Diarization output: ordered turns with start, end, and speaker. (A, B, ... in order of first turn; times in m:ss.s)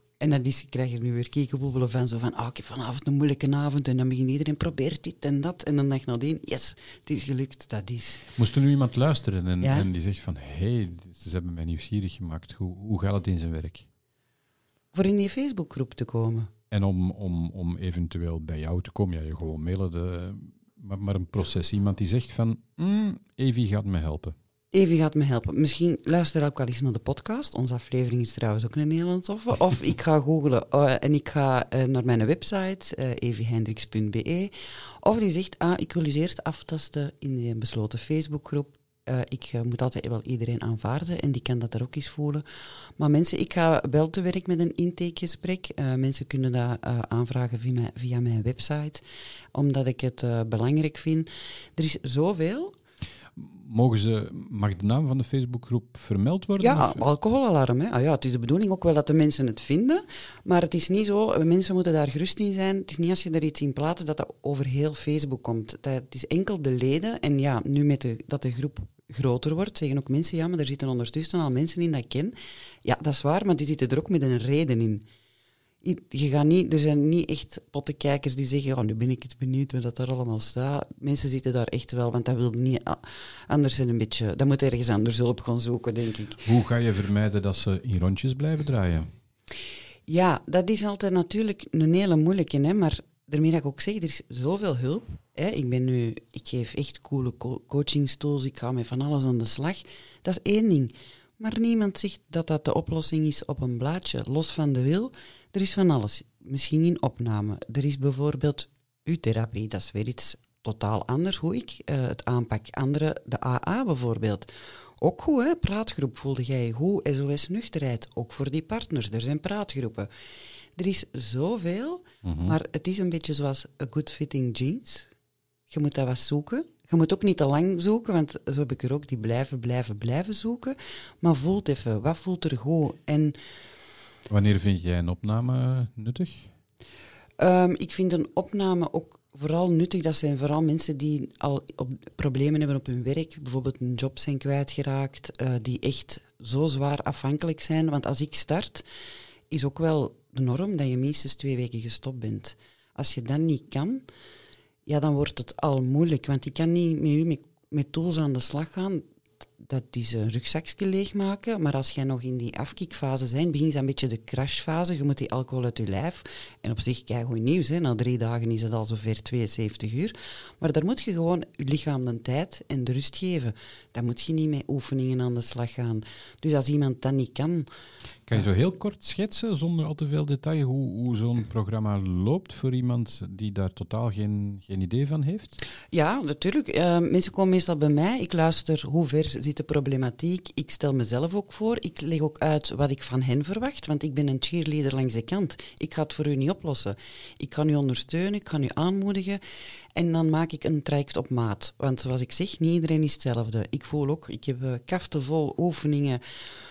0:00.2-0:08.2 A
0:08.4-0:13.9 B
0:09.6-0:09.9 A
0:14.9-0:16.5 A
0:16.7-0:24.4 B
0:24.7-0:42.4 A
0:43.0-0:49.0 A
0:49.5-0:52.7 A
0:53.4-0:57.0 B
0:56.6-1:15.0 A
1:15.8-1:26.5 A
1:26.4-1:29.1 B
1:30.1-1:54.5 A
1:55.0-2:00.1 A
2:00.8-2:05.1 A
2:02.2-2:02.6 B
2:05.7-2:13.4 A
2:14.3-2:16.5 B
2:17.4-2:28.8 A
2:29.5-2:34.0 A
2:34.8-2:39.0 A
2:39.6-2:57.7 A
2:58.3-3:05.6 B
3:05.9-3:19.4 A
3:19.9-3:26.2 A